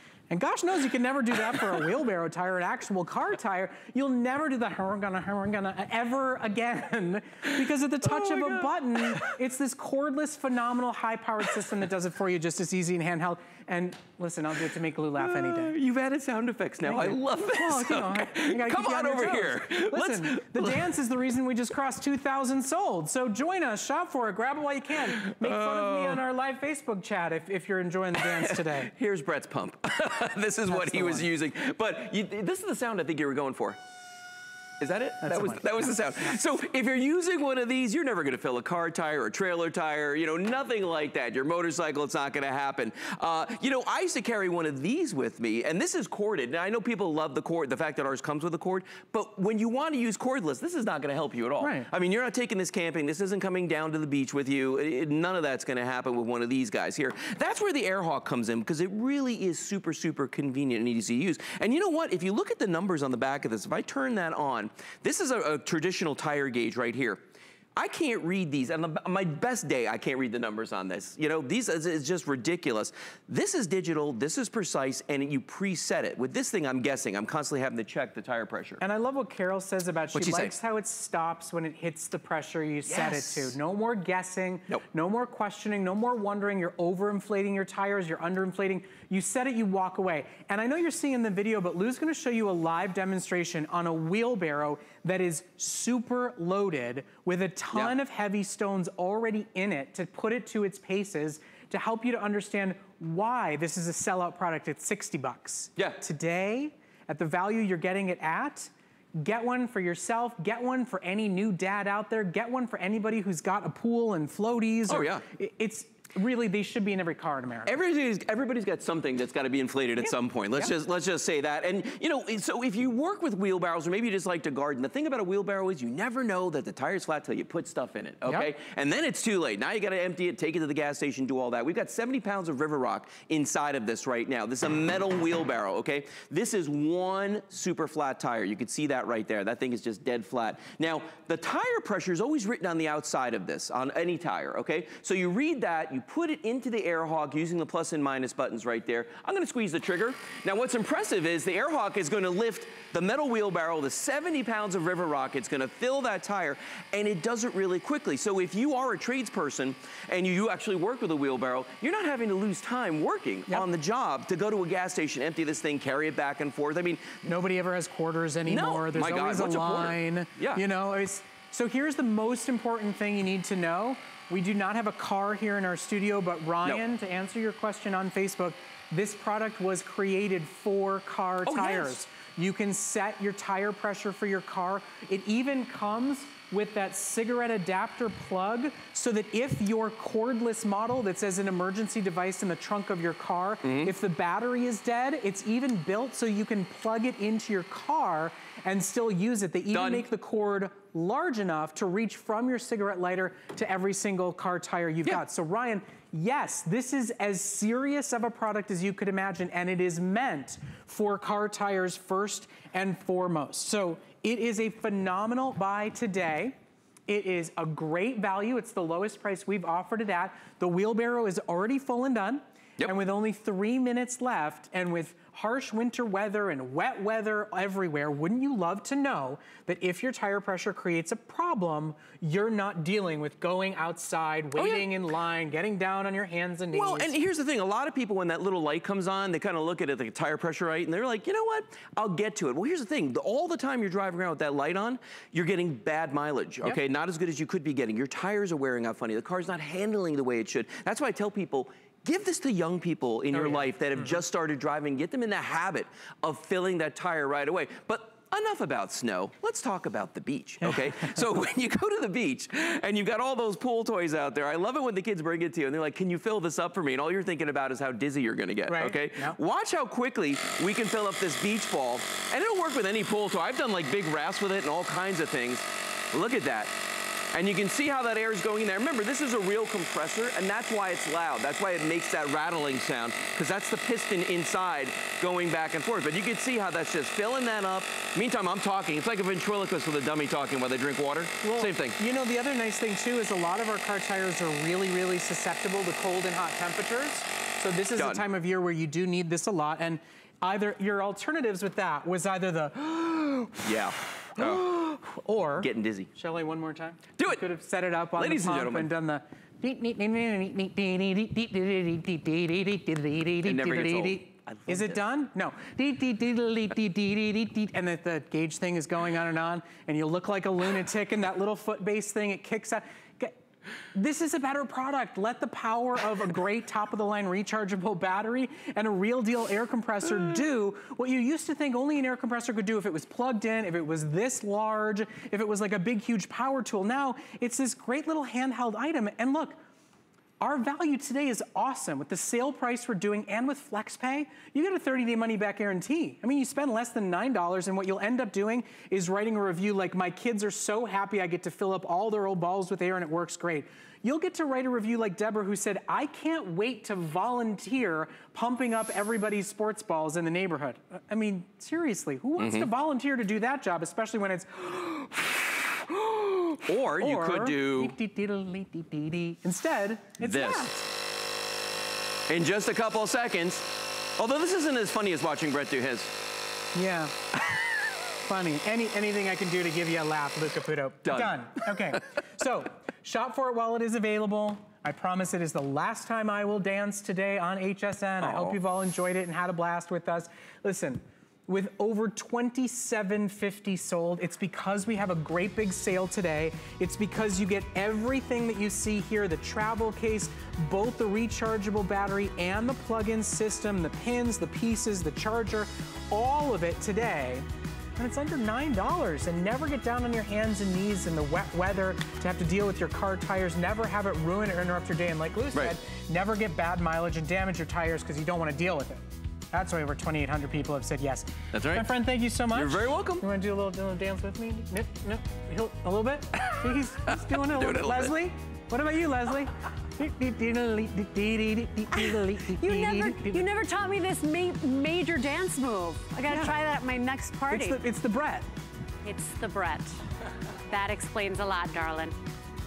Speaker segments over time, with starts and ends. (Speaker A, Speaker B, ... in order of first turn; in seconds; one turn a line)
Speaker A: 0.3-15.7
Speaker B: 8.0-9.3
Speaker B: 15.2-20.9
Speaker A: 16.8-28.9
Speaker B: 25.1-26.2
Speaker B: 28.2-33.8
Speaker A: 30.7-31.3
Speaker B: 34.8-67.2
Speaker A: 35.2-36.3
Speaker A: 51.6-51.9
Speaker B: 67.8-78.8
Speaker A: 78.8-117.8
Speaker B: 80.1-80.5
Speaker B: 82.9-83.5
Speaker B: 114.9-115.2
Speaker B: 117.7-167.2
Speaker A: 120.0-120.7
Speaker A: 167.2-216.6
Speaker B: 168.5-170.6
Speaker B: 181.4-182.0
Speaker B: 193.6-193.9
Speaker B: 199.7-200.1
Speaker A: 217.1-237.1
Speaker B: 234.6-235.0
Speaker B: 236.7-276.8
Speaker A: 253.3-254.2
Speaker A: 260.6-261.2
Speaker A: 268.7-269.4
Speaker B: 277.3-292.0
Speaker A: 291.4-303.6
Speaker B: 297.9-298.2
Speaker B: 303.6-304.7
Speaker A: 304.3-323.4
Speaker B: 305.6-306.1
Speaker B: 307.2-307.4
Speaker B: 308.2-308.9
Speaker B: 313.4-315.0
Speaker A: 323.9-339.6
Speaker A: 340.4-370.9
Speaker B: 362.4-362.7
Speaker B: 366.7-367.9
Speaker B: 370.2-370.7
Speaker B: 372.3-376.2
Speaker A: 376.8-377.2
Speaker A: 378.2-407.5
Speaker B: 381.1-382.0
Speaker B: 388.2-388.6
Speaker A: 408.0-433.5
Speaker B: 421.5-421.9
Speaker B: 422.5-423.3
Speaker B: 426.4-428.1
Speaker C: 432.5-437.8
Speaker A: 436.3-436.5
Speaker A: 437.5-438.5
Speaker C: 439.0-440.0
Speaker C: 440.7-442.1